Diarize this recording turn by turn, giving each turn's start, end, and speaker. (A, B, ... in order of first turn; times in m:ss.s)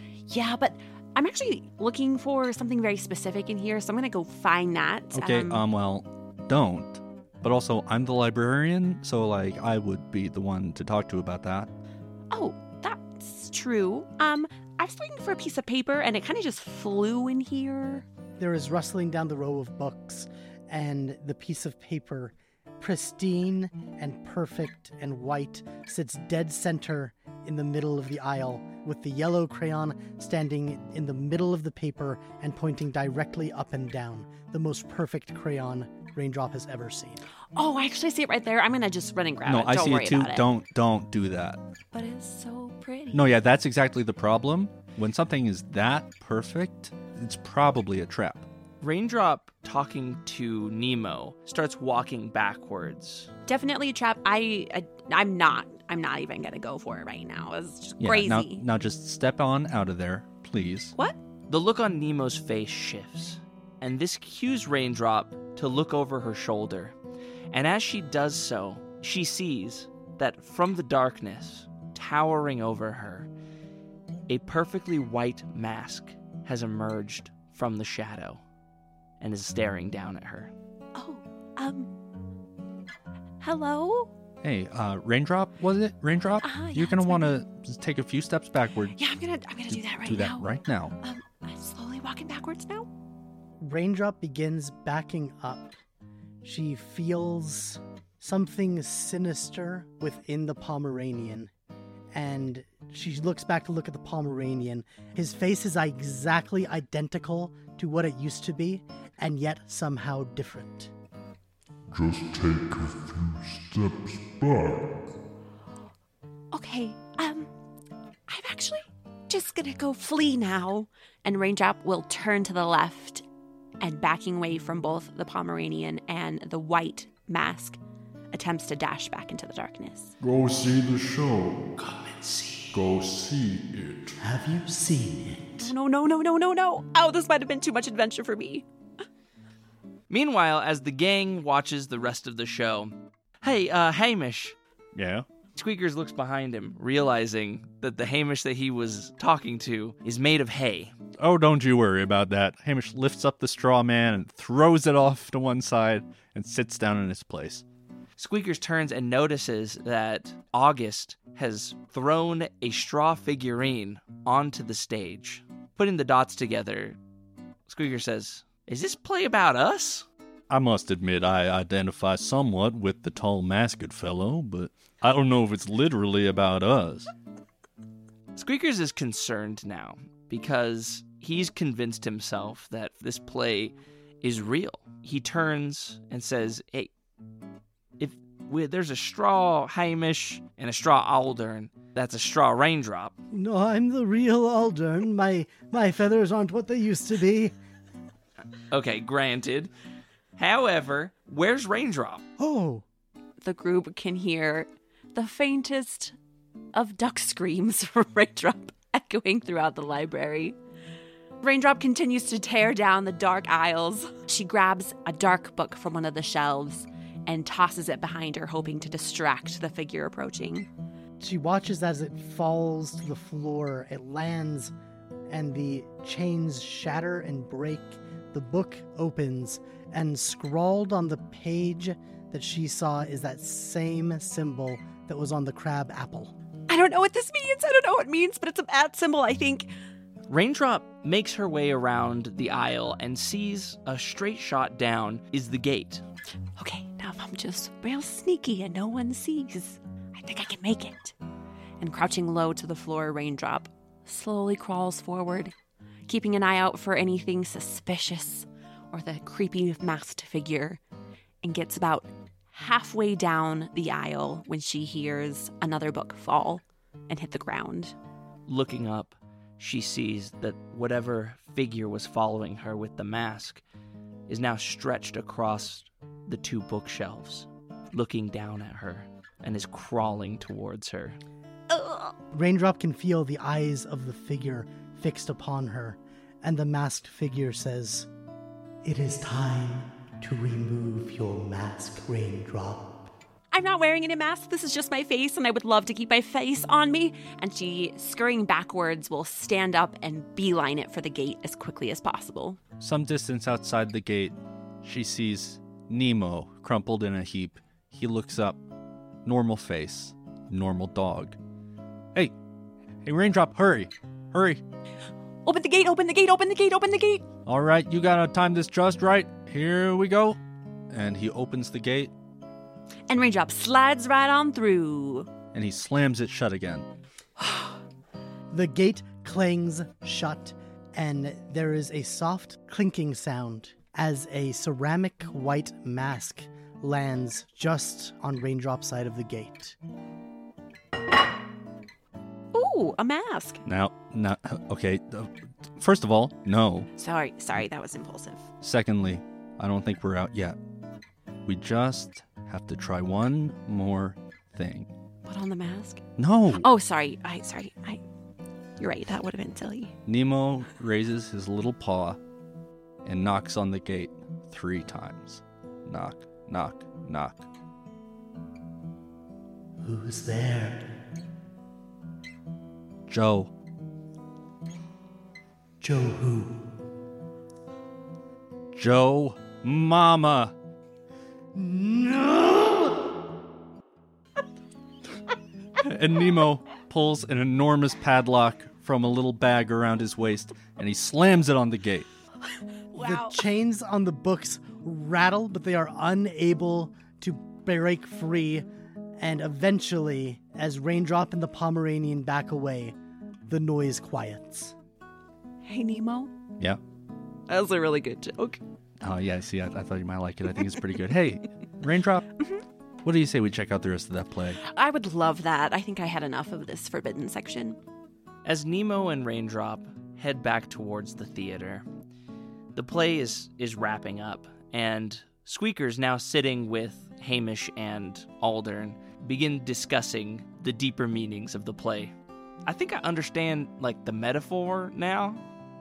0:00.3-0:05.6 A
0:05.1-0:11.7 B
0:12.3-0:18.0 A
0:18.4-0:37.2 C
0:37.5-0:40.4 A
0:39.4-0:41.6 B
0:41.9-0:43.2 A
0:43.1-0:48.4 B
0:48.8-0:53.3 D
0:53.4-0:58.6 A
0:58.0-1:00.9 B
1:01.5-1:06.9 D
1:07.5-1:13.3 D
1:14.3-1:18.4 D
1:19.2-1:20.5 D
1:20.9-1:21.9 A
1:23.4-1:24.1 A
1:24.4-1:29.0 B
1:26.4-1:27.3 A
1:29.0-1:32.9 A
1:29.7-1:31.0 B
1:33.6-1:35.7 C
1:36.4-1:41.5 C
1:42.1-1:50.9 C
1:51.9-1:54.9 E
1:56.5-1:57.5 A
1:58.3-2:03.2 A
2:03.8-2:07.8 A
2:08.3-2:10.1 A
2:10.2-2:10.7 E
2:10.2-2:11.6 B
2:11.8-2:12.8 D
2:12.7-2:14.1 B
2:14.2-2:15.7 C
2:15.6-2:18.6 A
2:20.1-2:24.6 D
2:24.9-2:25.2 B
2:25.5-2:30.9 D
2:31.2-2:37.6 B
2:38.2-2:47.0 D
2:47.7-2:50.0 D
2:50.5-2:57.1 B
2:58.3-3:06.9 D
3:08.0-3:13.1 D
3:13.3-3:17.5 C
3:18.7-3:19.7 D
3:20.4-3:22.2 D
3:22.4-3:22.8 C
3:23.4-3:26.1 A
3:26.7-3:30.6 A
3:31.4-3:40.7 A
3:41.2-3:44.7 C
3:45.3-3:56.4 C
3:56.7-3:59.7 A
4:00.3-4:06.0 D
4:06.6-4:11.1 A
4:11.8-4:15.5 A
4:16.1-4:20.8 A
4:21.4-4:27.9 A
4:28.5-4:33.6 D
4:34.3-4:41.2 D
4:41.7-4:42.1 A
4:42.3-4:48.1 C
4:48.8-4:53.1 C
4:53.5-5:02.6 A
5:02.8-5:08.6 B
5:09.2-5:11.4 B
5:13.0-5:14.6 B
5:15.4-5:17.2 A
5:17.4-5:20.4 B
5:20.9-5:22.1 B
5:23.1-5:25.3 A
5:25.5-5:26.9 B
5:27.4-5:27.7 A
5:28.5-5:39.8 C
5:42.5-5:43.6 A
5:43.6-5:46.9 B
5:47.0-5:48.5 A
5:48.6-5:50.6 B
5:51.4-5:54.9 B
5:55.2-5:58.0 A
5:56.2-5:56.7 B
5:58.8-5:59.9 A
6:00.1-6:02.2 B
6:03.0-6:07.4 B
6:09.8-6:10.8 C
6:13.1-6:13.5 B
6:15.8-6:16.6 C
6:18.7-6:20.5 B
6:21.5-6:23.1 C
6:25.8-6:32.1 B
6:32.9-6:33.4 A
6:33.0-6:43.0 C
6:43.5-6:44.7 C
6:45.6-6:46.3 A
6:47.5-6:48.6 A
6:49.0-6:52.3 B
6:53.0-6:54.6 B
6:54.6-6:57.8 A
6:58.4-7:01.8 D
7:02.7-7:12.1 D
7:12.6-7:15.4 D